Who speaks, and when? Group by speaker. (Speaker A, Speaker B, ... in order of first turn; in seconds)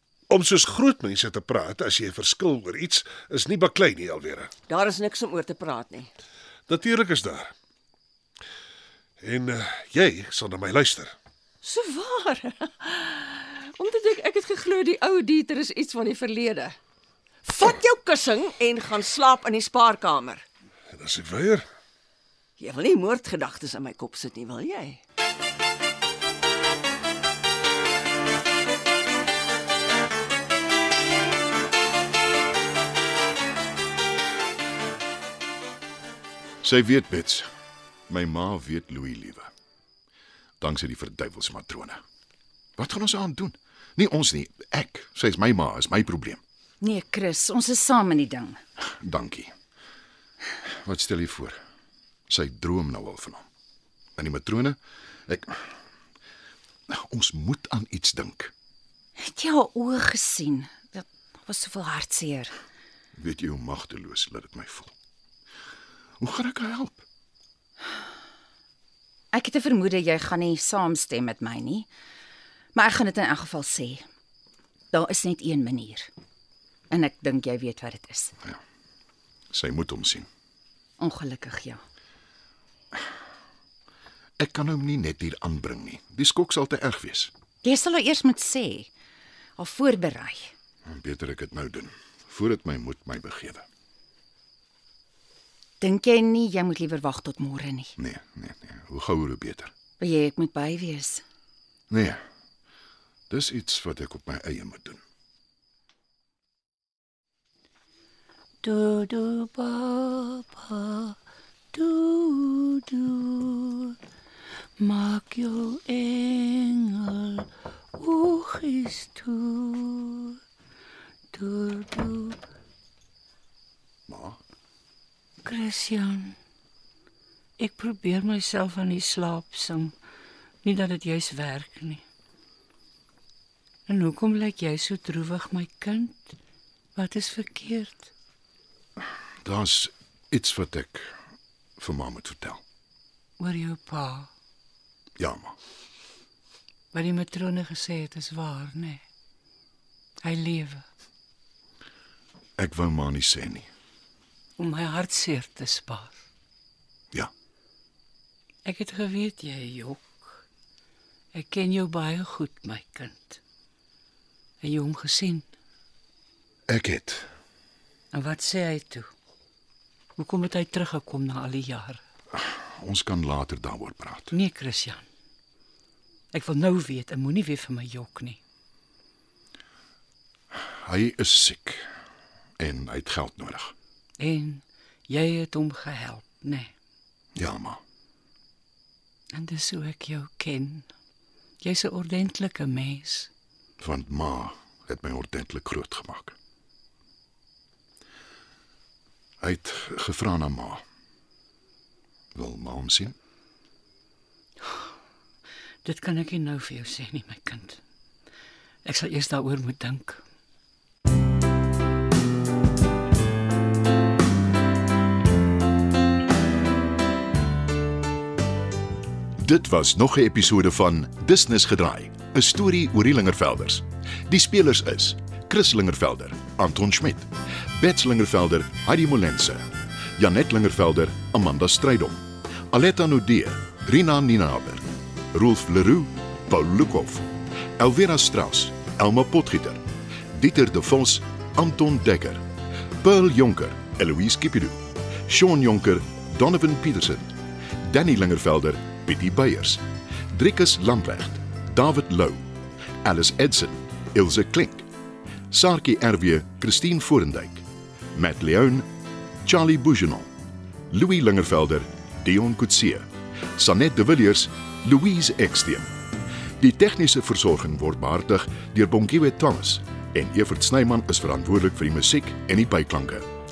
Speaker A: 0.3-4.5, 6.7-7.5, 9.2-11.2, 20.9-21.7
Speaker B: 4.7-6.1, 11.6-16.8, 17.4-20.5, 22.6-25.0
Speaker C: 36.6-37.5, 38.1-39.5, 40.6-42.0, 42.8-46.4, 48.8-49.5, 50.6-51.6, 52.3-53.5, 54.2-55.6, 56.9-58.5, 63.1-64.9, 66.2-67.0, 79.5-80.3, 84.4-87.3, 90.8-93.7, 98.0-99.7, 101.9-102.2, 103.3-105.0, 124.1-124.4, 139.4-141.2, 141.8-142.6, 145.2-145.6, 152.6-153.7, 166.7-167.3, 172.5-174.3, 180.6-181.9, 182.6-183.7, 187.3-187.8, 193.8-196.4, 199.4-200.8, 202.3-203.2, 219.4-242.4, 243.0-247.3, 247.8-252.4, 253.0-254.9, 255.5-258.9, 259.4-260.3, 260.9-265.9, 266.6-273.3
Speaker D: 46.8-48.6, 59.2-62.5, 69.3-71.9, 72.8-74.0, 74.9-76.1, 76.9-78.3, 81.0-81.8, 87.6-88.9, 89.6-90.5, 95.8-97.9, 100.0-101.2
Speaker E: 108.6-111.2, 111.7-114.0, 114.8-120.4, 121.3-122.4, 125.4-126.4, 127.6-129.9, 130.6-132.0, 133.9-136.3, 136.9-138.1, 143.4-144.3, 146.9-149.0, 150.2-150.8, 154.6-156.2, 158.7-160.4, 161.3-163.4, 164.6-165.5, 168.1-169.1, 170.2-172.0, 174.3-175.1, 176.3-178.4, 184.2-186.7, 189.3-190.9, 191.6-193.3, 205.8-207.8, 208.8-210.2